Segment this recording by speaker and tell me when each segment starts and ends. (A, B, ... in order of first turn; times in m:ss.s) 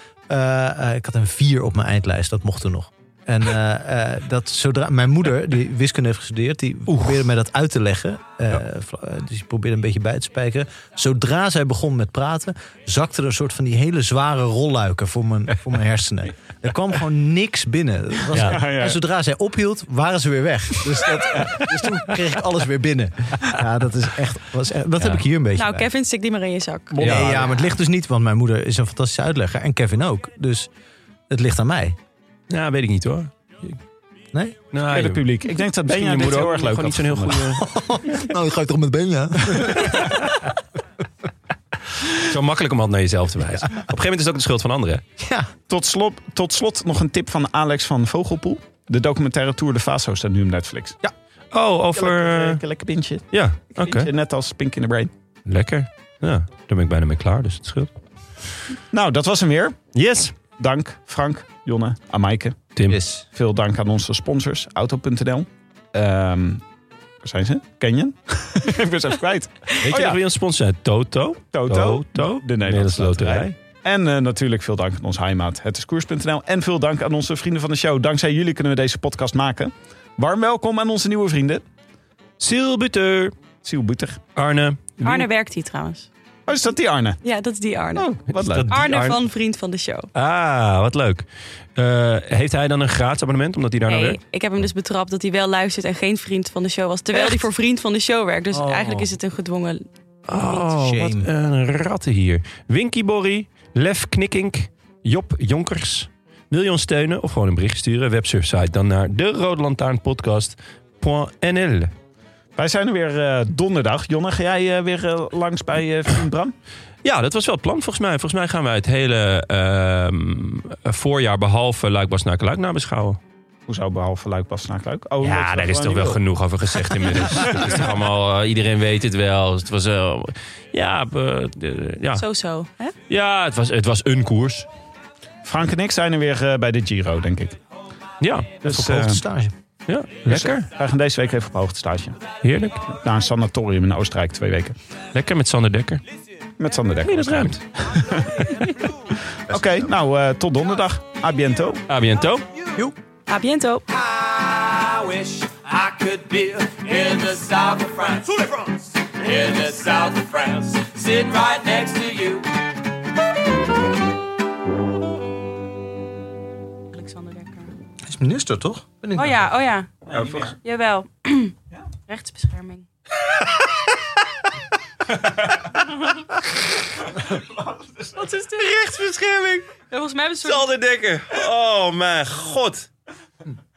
0:00.3-0:25.9 A
0:06.9-0:07.3 B
0:18.3-0:18.6 B
0:18.4-0:19.0 C
0:25.6-0:27.0 D
0:26.9-0:27.6 C
0:27.0-0:27.4 B
0:27.0-0:30.7 A
0:31.3-0:32.0 A
0:32.5-0:33.8 B
0:34.7-0:35.3 B
0:34.9-0:37.6 C
0:35.8-0:37.6 B
0:37.6-0:40.3 A
0:42.2-0:45.0 B
0:45.2-0:45.5 A
0:45.7-0:51.0 C
0:51.5-0:52.6 B
0:52.0-0:55.1 C
0:53.3-0:54.1 B
0:55.5-0:57.9 B
0:58.9-0:59.9 C
1:00.0-1:00.3 B
1:00.5-1:02.7 C
1:02.8-1:03.1 B
1:02.9-1:03.2 A
1:03.2-1:06.6 C
1:07.2-1:10.2 C
1:09.8-1:13.6 B
1:11.5-1:21.6 C
1:22.4-1:23.4 B
1:23.6-1:24.2 C
1:24.4-1:25.0 B
1:25.0-1:26.1 D
1:26.5-1:27.2 C
1:27.2-1:28.1 D
1:28.0-1:29.0 C
1:28.3-1:29.2 B
1:28.7-1:30.1 D
1:30.1-1:34.2 B
1:33.9-1:40.7 D
1:38.5-1:39.1 A
1:40.3-1:51.9 B
1:40.7-1:41.3 A
1:52.6-1:56.6 C
1:57.0-2:03.2 B
2:03.7-2:06.2 C
2:05.2-2:12.2 B
2:06.8-2:07.9 C
2:12.2-2:12.9 D
2:13.1-2:14.7 B
2:15.4-2:17.6 C
2:18.2-2:19.1 B
2:18.6-2:19.2 C
2:18.6-2:19.5 A
2:19.9-2:20.7 B
2:20.3-2:22.2 C
2:22.4-2:22.8 B
2:22.9-2:24.8 C
2:25.1-2:26.0 B
2:26.6-2:28.4 C
2:27.0-2:27.6 B
2:28.2-2:28.7 B
2:29.1-2:31.8 C
2:29.5-2:29.9 A
2:31.9-2:32.5 B
2:33.3-2:33.9 D
2:33.9-2:42.5 E
2:46.9-2:47.7 D
2:48.1-2:49.5 A
2:49.2-2:51.6 D
2:50.1-2:50.6 C
2:52.1-2:52.9 D
2:57.3-2:58.1 C
2:58.2-2:58.7 D
2:58.6-2:59.7 B
2:59.9-3:00.7 D
3:00.4-3:02.9 B